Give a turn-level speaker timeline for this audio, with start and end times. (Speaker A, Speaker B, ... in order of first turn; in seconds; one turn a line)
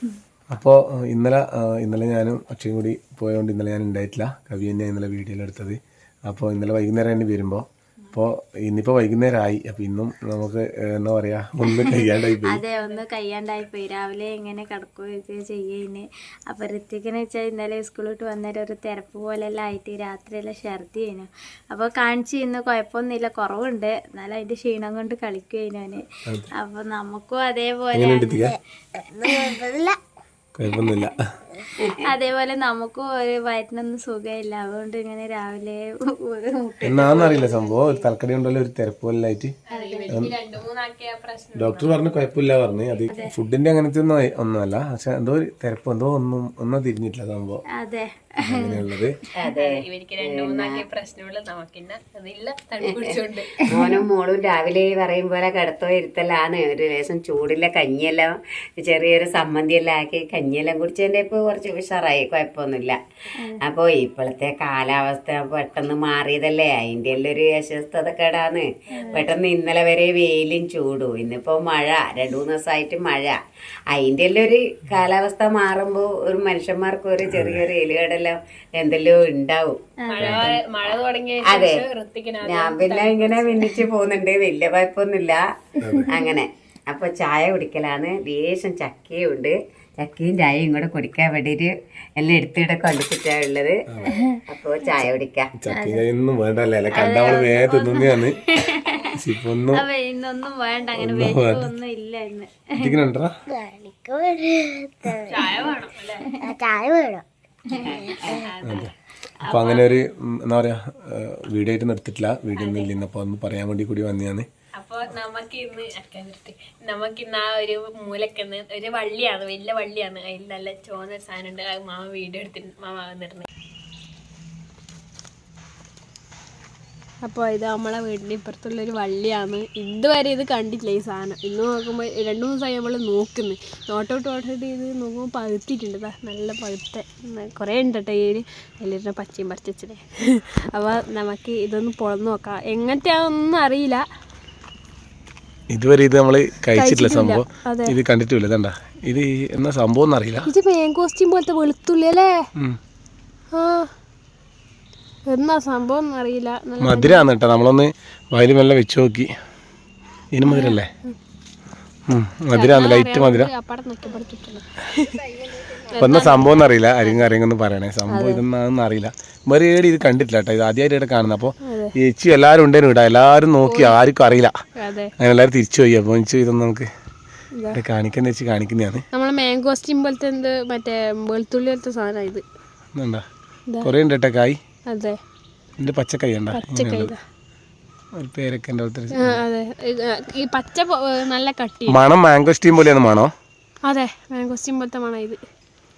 Speaker A: 0.5-12.6
Speaker B: 11.7-26.0
Speaker C: 12.7-13.0
Speaker B: 26.6-28.5
Speaker A: 27.9-28.6
Speaker D: 29.1-30.0
Speaker B: 29.2-29.5
Speaker A: 30.6-31.2
Speaker E: 31.8-32.1
Speaker B: 32.0-37.7
Speaker A: 36.8-39.5
Speaker C: 39.7-42.0
Speaker B: 39.7-40.1
Speaker A: 40.1-40.3
Speaker A: 41.5-47.6
Speaker B: 47.7-48.8
Speaker A: 48.4-49.1
Speaker E: 49.4-50.8
Speaker C: 49.5-53.7
Speaker E: 52.8-63.0
Speaker E: 63.6-73.3
Speaker E: 73.9-79.8
Speaker A: 77.2-77.6
Speaker B: 80.0-80.5
Speaker C: 80.1-83.8
Speaker A: 80.2-80.6
Speaker E: 81.5-81.8
Speaker E: 82.4-85.4
Speaker A: 85.8-86.1
Speaker E: 86.1-93.8
Speaker A: 93.9-94.2
Speaker E: 94.5-95.5
Speaker A: 95.5-98.4
Speaker B: 95.7-96.0
Speaker B: 96.9-99.1
Speaker A: 99.2-99.8
Speaker B: 99.7-103.0
Speaker A: 101.0-101.7
Speaker A: 102.8-103.3
Speaker D: 103.5-105.5
Speaker C: 105.2-106.3
Speaker D: 106.4-108.2
Speaker B: 107.7-108.0
Speaker E: 107.8-108.4
Speaker C: 108.3-108.9
Speaker A: 108.6-108.9
Speaker A: 109.4-114.5
Speaker C: 109.5-109.9
Speaker C: 112.5-112.9
Speaker C: 114.8-123.5
Speaker C: 127.2-144.0
Speaker A: 145.7-150.5
Speaker C: 146.7-147.9
Speaker C: 150.4-152.4
Speaker C: 153.5-153.9
Speaker C: 155.3-157.2
Speaker A: 156.8-159.3
Speaker A: 160.3-160.9
Speaker C: 160.4-161.1
Speaker A: 162.1-163.5
Speaker C: 162.5-167.3
Speaker A: 166.0-174.5
Speaker C: 168.1-168.4
Speaker C: 171.6-171.9
Speaker C: 173.6-174.0
Speaker C: 174.8-175.1
Speaker A: 175.2-176.9
Speaker C: 177.5-177.8
Speaker A: 177.7-179.0
Speaker C: 179.1-182.4
Speaker A: 182.9-183.2
Speaker A: 183.8-184.6
Speaker C: 184.9-185.2
Speaker A: 185.8-187.1
Speaker C: 186.5-187.2
Speaker A: 188.2-189.4
Speaker C: 189.2-192.0
Speaker A: 191.9-193.3
Speaker C: 193.9-195.4